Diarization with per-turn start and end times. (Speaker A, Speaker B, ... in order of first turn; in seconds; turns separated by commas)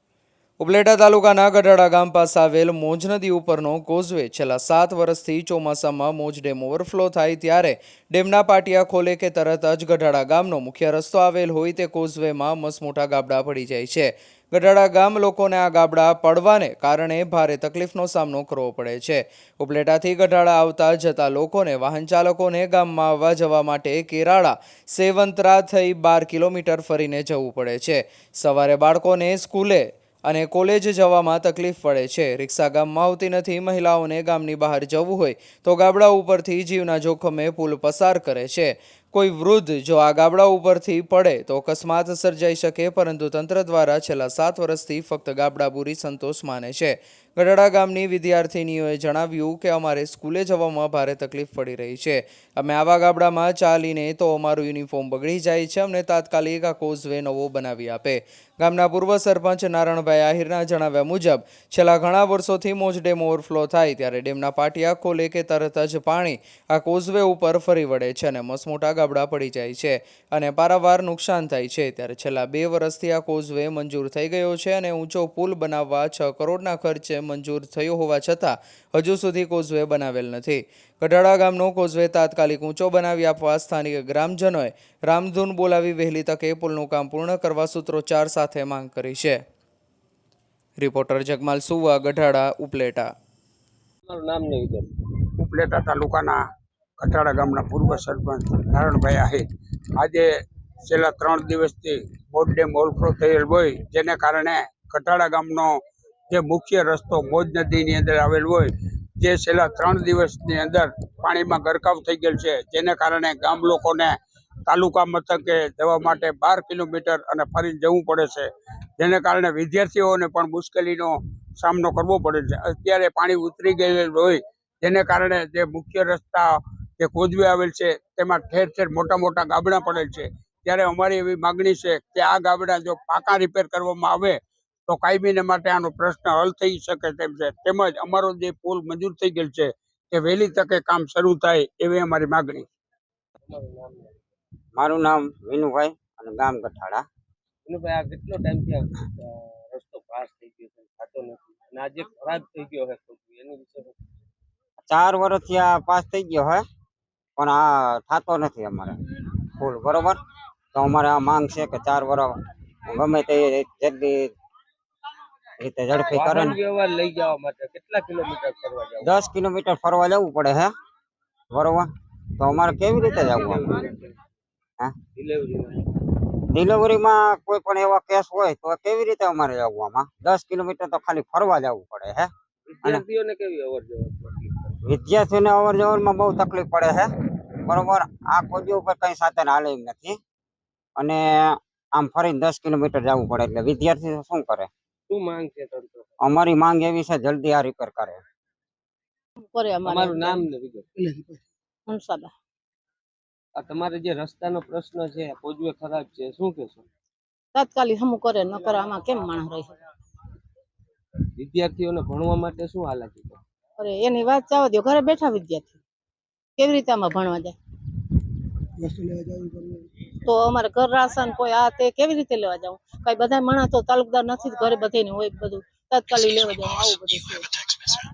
Speaker A: 0.6-89.4, Speaker A: 90.8-93.1, Speaker B: 94.0-94.9, Speaker C: 95.4-96.4, Speaker C: 97.0-99.4, Speaker C: 100.0-100.3, Speaker C: 100.8-114.1, Speaker C: 114.7-142.7, Speaker B: 143.4-144.2, Speaker D: 144.8-147.0, Speaker B: 147.7-154.0, Speaker D: 154.8-156.6, Speaker D: 157.4-159.0, Speaker D: 159.6-160.2, Speaker D: 160.7-162.3, Speaker D: 162.9-164.3, Speaker D: 165.6-166.6, Speaker B: 166.1-169.2, Speaker D: 169.0-170.7, Speaker D: 171.5-173.7, Speaker B: 173.1-174.1, Speaker B: 175.1-175.8, Speaker D: 176.5-182.3, Speaker B: 182.7-184.8, Speaker D: 184.8-187.1, Speaker D: 187.6-190.2, Speaker D: 190.9-194.7, Speaker B: 195.1-196.1, Speaker D: 196.2-198.2, Speaker E: 199.4-200.4, Speaker B: 199.8-201.1, Speaker E: 201.9-202.3, Speaker B: 203.6-206.8, Speaker E: 207.5-209.8, Speaker B: 211.3-213.4, Speaker E: 213.8-215.8, Speaker E: 216.6-217.5, Speaker E: 220.2-227.6